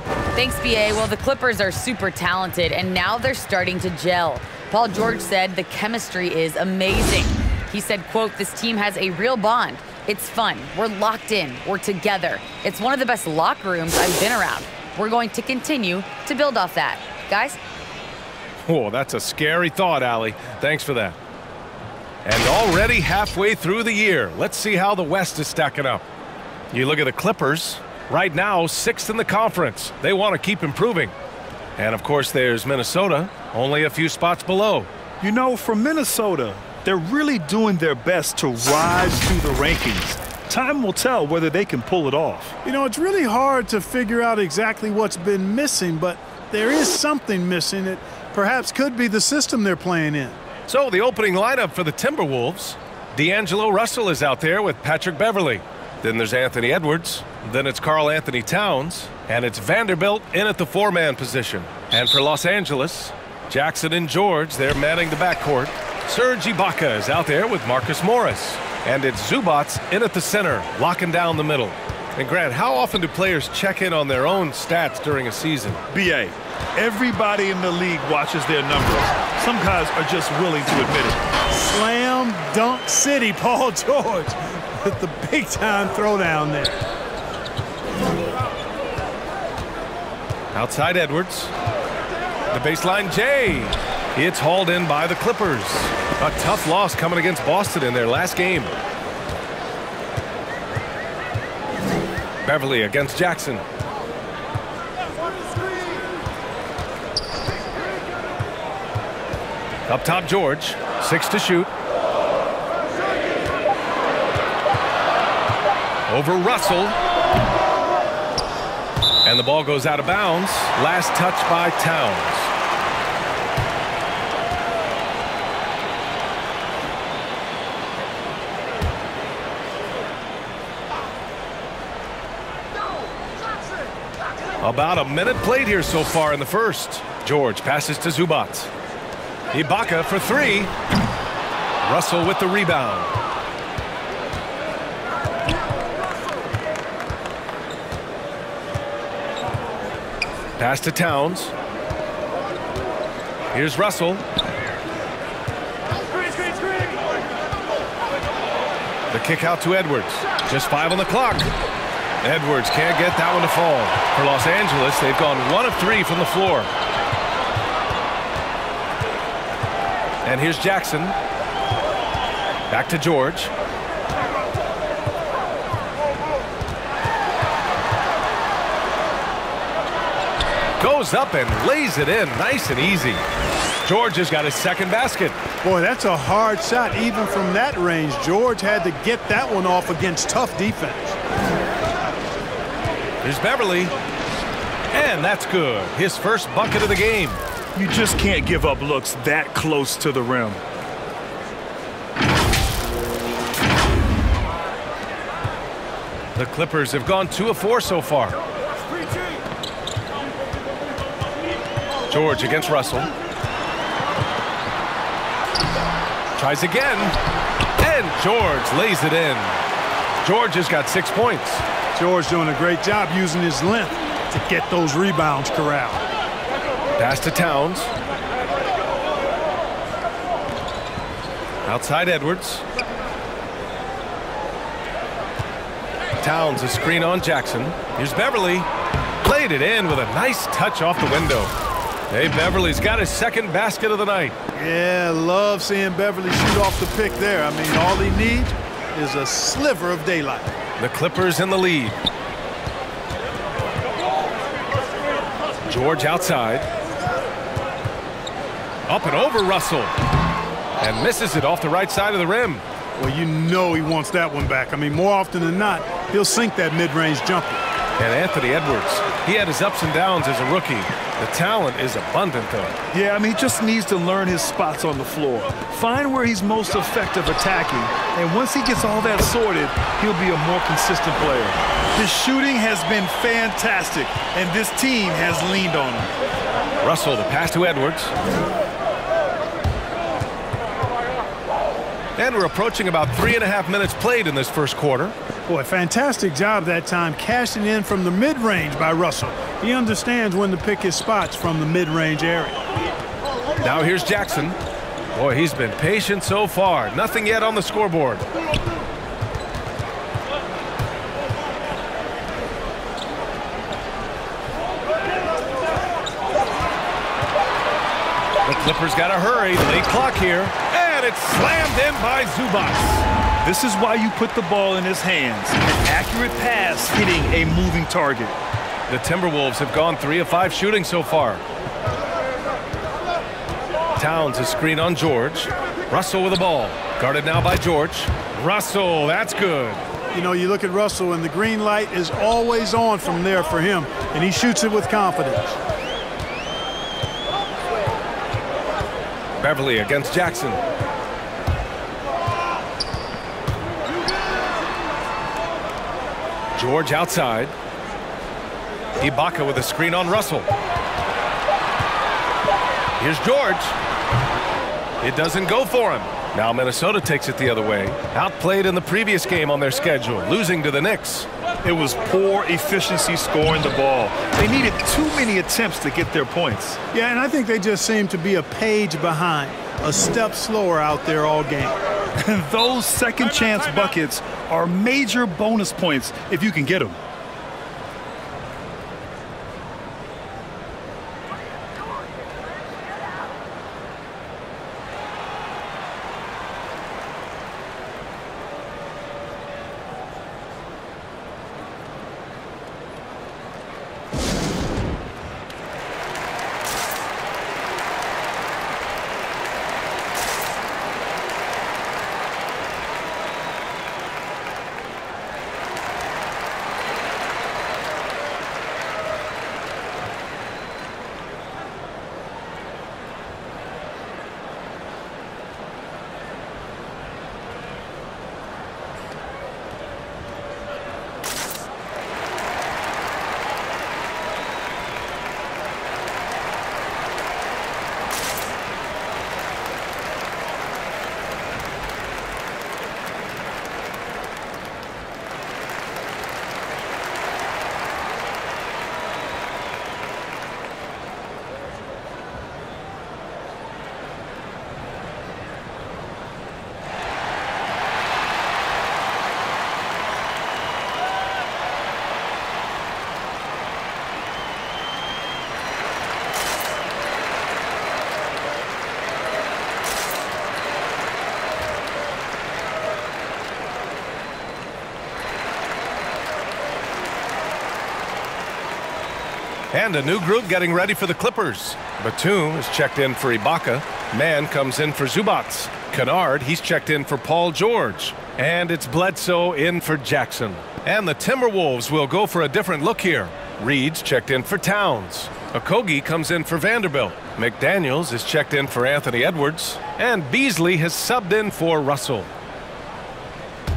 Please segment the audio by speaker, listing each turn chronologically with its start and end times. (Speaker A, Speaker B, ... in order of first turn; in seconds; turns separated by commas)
Speaker A: 0.3-17.6, Speaker B: 18.7-21.2, Speaker B: 22.2-26.0, Speaker B: 26.7-31.1, Speaker B: 31.8-34.9, Speaker C: 35.2-42.5, Speaker D: 42.6-50.4, Speaker B: 50.7-75.8, Speaker C: 75.9-81.2, Speaker D: 81.5-86.8, Speaker B: 90.5-91.5, Speaker B: 92.5-98.7, Speaker B: 102.4-103.6, Speaker B: 109.9-111.7, Speaker B: 116.1-117.0, Speaker B: 119.2-122.5, Speaker B: 134.6-138.7, Speaker B: 139.5-140.7, Speaker B: 141.8-143.1, Speaker B: 150.6-151.5, Speaker B: 153.5-154.2, Speaker B: 159.1-161.5, Speaker B: 162.2-166.7, Speaker B: 170.2-171.2, Speaker B: 172.7-173.5, Speaker B: 180.8-183.2, Speaker B: 183.8-185.4, Speaker D: 185.6-191.2, Speaker B: 193.2-193.9, Speaker B: 194.9-197.4, Speaker C: 197.8-200.6, Speaker B: 206.3-208.4, Speaker B: 212.1-213.1, Speaker B: 216.4-217.1, Speaker B: 217.8-219.5, Speaker B: 220.2-221.6, Speaker D: 221.9-226.0, Speaker B: 227.0-227.9, Speaker B: 231.7-232.6, Speaker B: 236.2-238.7, Speaker B: 239.2-241.5, Speaker B: 242.1-244.4, Speaker D: 244.5-250.5, Speaker B: 250.8-252.0, Speaker B: 255.7-256.7, Speaker B: 258.9-259.9, Speaker B: 260.8-262.6, Speaker D: 263.0-267.6, Speaker B: 268.0-272.8, Speaker C: 272.9-286.1, Speaker B: 286.8-288.1, Speaker B: 292.2-295.1, Speaker D: 295.5-302.6, Speaker B: 303.6-304.6, Speaker B: 305.1-308.2, Speaker B: 318.4-323.1, Speaker C: 323.4-328.4, Speaker B: 328.9-331.4, Speaker B: 334.0-339.8, Speaker D: 340.1-345.6, Speaker B: 349.4-350.6, Speaker B: 356.6-357.5, Speaker B: 359.0-360.5, Speaker B: 363.0-363.8, Speaker B: 365.0-371.3, Speaker C: 371.6-376.8, Speaker D: 376.9-381.8, Speaker C: 382.2-387.0, Speaker B: 479.7-502.3